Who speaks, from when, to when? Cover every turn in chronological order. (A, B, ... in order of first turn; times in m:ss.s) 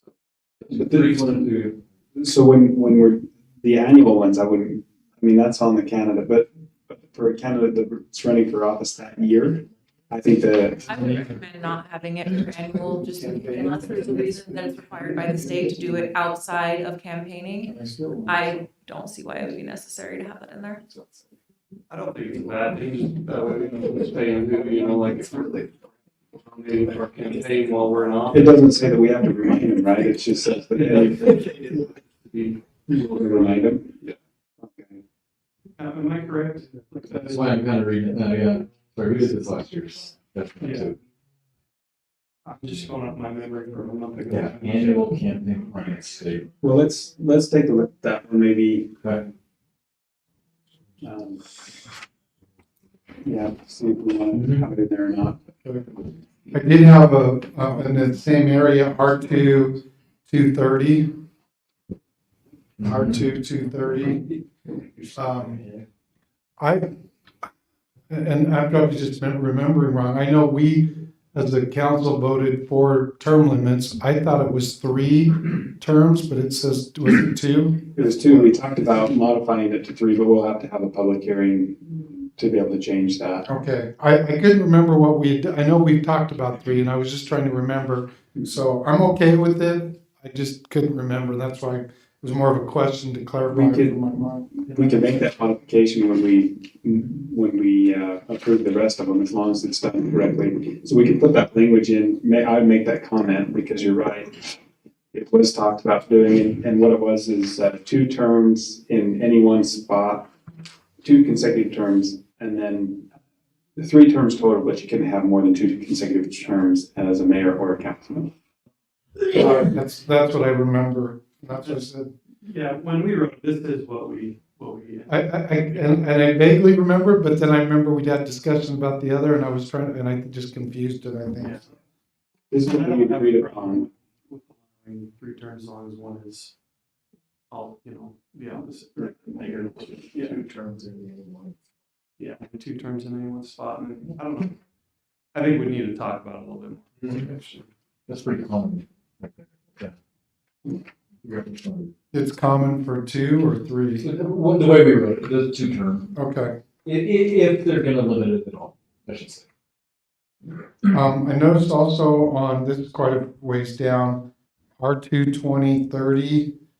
0:00.6-0:01.7 A
0:00.7-0:11.0 B
0:10.8-0:20.8 C
0:13.2-0:14.5 B
0:17.8-0:18.3 B
0:21.9-0:25.7 D
0:26.4-0:28.7 D
0:28.3-0:31.9 B
0:30.7-0:34.1 D
0:32.8-0:34.0 B
0:34.6-0:35.0 B
0:35.8-0:37.6 D
0:37.1-0:41.0 A
0:40.6-0:40.9 D
0:42.4-0:45.1 D
0:44.3-0:46.5 A
0:46.6-0:49.0 B
0:49.0-0:49.3 A
0:51.0-0:51.4 B
0:53.2-0:55.4 B
0:54.3-0:54.6 A
0:56.5-1:01.1 E
1:02.8-1:03.2 A
1:02.8-1:04.3 E
1:05.1-1:05.6 E
1:06.6-1:06.9 E
1:08.1-1:18.5 E
1:17.9-1:23.4 B
1:23.5-1:34.5 E
1:33.5-1:34.0 B
1:34.7-1:44.5 B
1:34.7-1:35.2 D
1:45.1-1:50.3 B
1:51.0-1:53.1 B
1:53.8-1:58.3 B
1:59.3-2:02.1 E
2:02.4-2:06.0 D
2:05.1-2:11.6 E
2:12.5-2:13.8 B
2:12.6-2:16.5 D
2:17.5-2:20.6 D
2:20.1-2:21.5 A
2:22.2-2:24.6 D
2:25.3-2:27.7 D
2:28.1-2:29.9 A
2:31.2-2:31.9 A
2:32.1-2:34.1 E
2:34.0-2:36.1 A
2:36.1-2:36.6 E
2:36.8-2:39.4 A
2:40.8-2:46.6 E